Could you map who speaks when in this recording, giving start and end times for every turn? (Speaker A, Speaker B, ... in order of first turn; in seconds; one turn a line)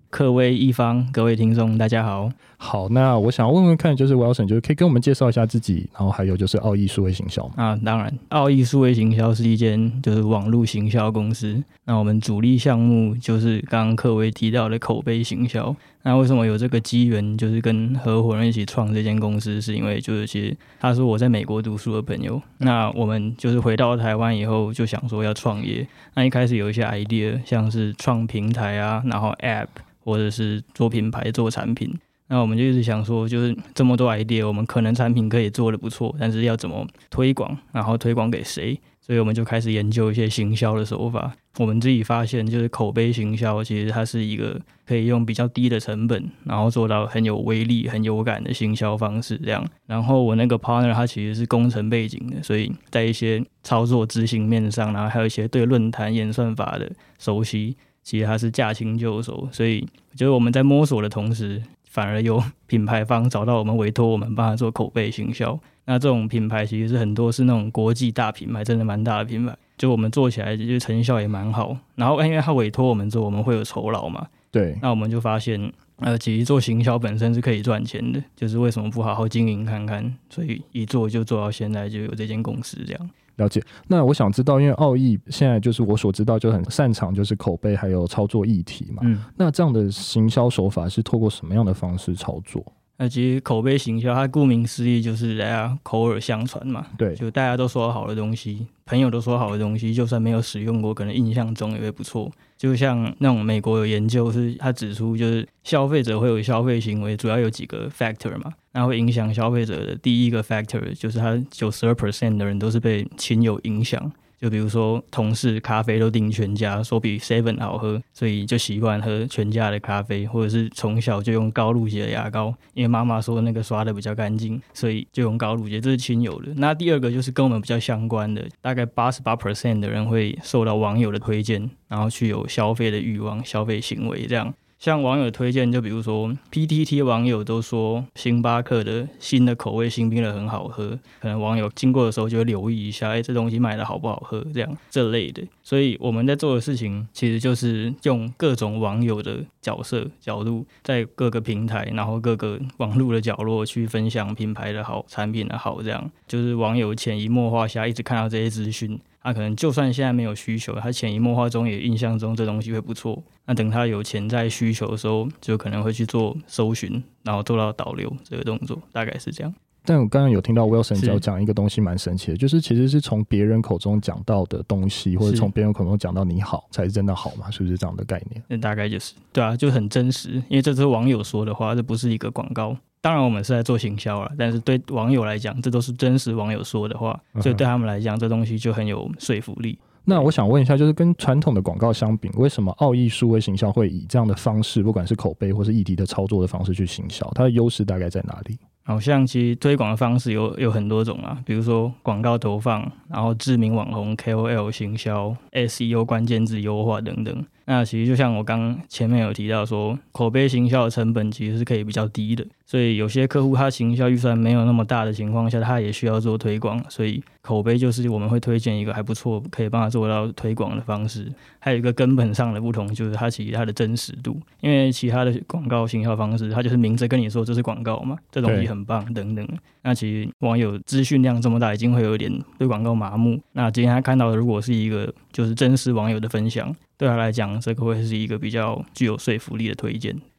Speaker A: 0.1-2.4
Speaker B: 2.6-7.5
Speaker A: 7.5-83.1
Speaker B: 74.5-74.8
Speaker B: 83.4-92.7
Speaker A: 89.0-89.2
Speaker A: 93.0-169.5
Speaker B: 97.0-97.2
Speaker B: 169.8-178.4
Speaker A: 170.9-171.2
Speaker A: 175.2-175.5
Speaker A: 178.5-190.3
Speaker B: 190.0-198.6
Speaker A: 198.8-240.2
Speaker B: 228.4-228.7